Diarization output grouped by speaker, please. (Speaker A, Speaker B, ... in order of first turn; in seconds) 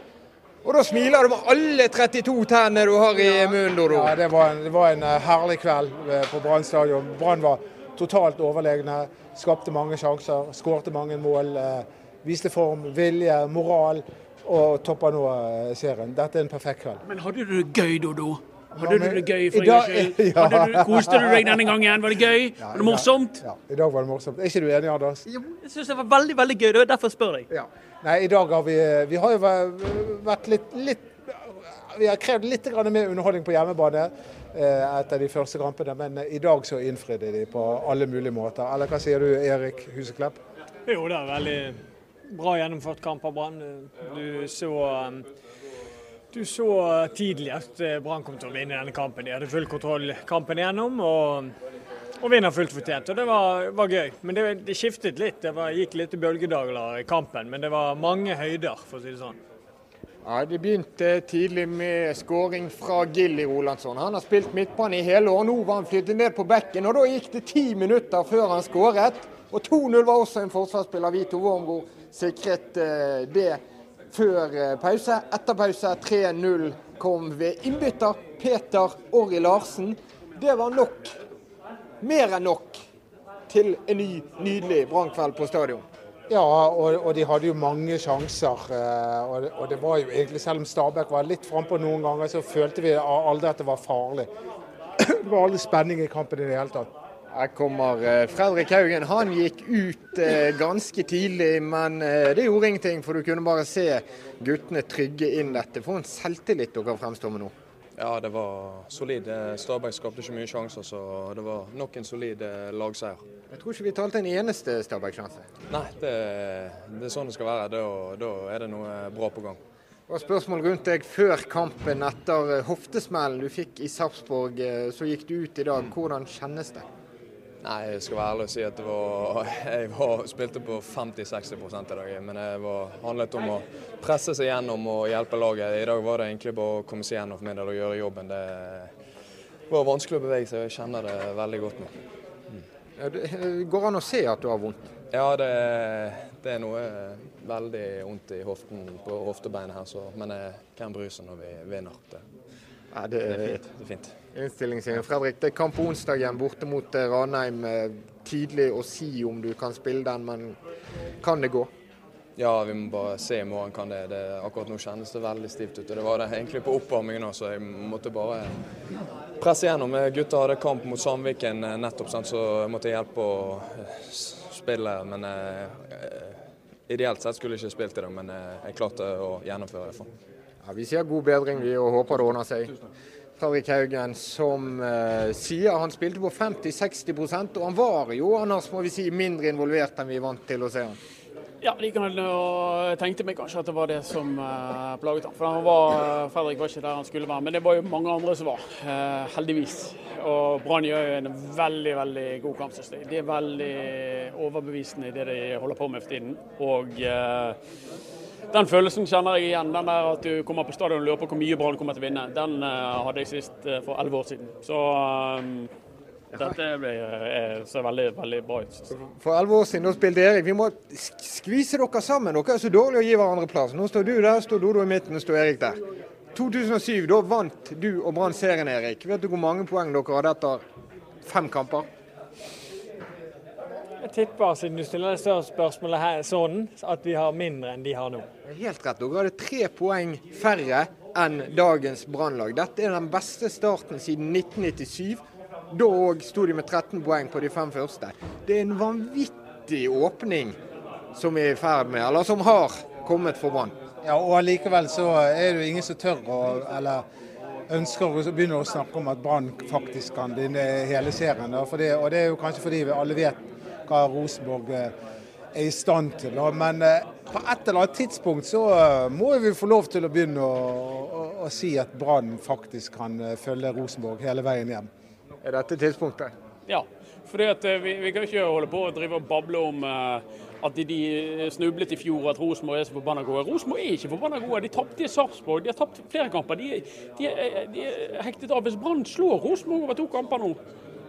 Speaker A: 0.6-4.1, 60.2-73.6, 74.1-81.1, 82.0-82.8, 83.5-85.8, 97.3-107.5, 113.5-115.4, 120.1-126.8, 143.0-144.8, 152.9-153.6, 154.3-160.6, 161.2-161.7, 180.6-182.7, 183.4-191.0, 218.9-225.8, 226.3-230.6, 231.2-231.9, 238.4-250.5, 251.1-253.8, 275.4-276.3
Speaker B: 3.2-17.0, 18.7-21.7, 22.6-25.2, 27.5-40.4, 86.3-94.3, 95.1-96.9, 254.0-257.0, 257.7-264.9, 265.5-274.9
Speaker C: 17.1-23.4, 25.5-27.4, 191.6-207.6, 208.5-215.7, 216.3-218.9, 276.6-290.6
Speaker D: 40.9-45.2, 46.3-51.5, 52.2-59.4, 234.0-238.2
Speaker E: 108.0-113.2, 115.7-119.6, 127.6-138.9, 139.7-141.9, 145.1-152.2, 153.4-154.1, 162.3-168.6, 169.4-180.1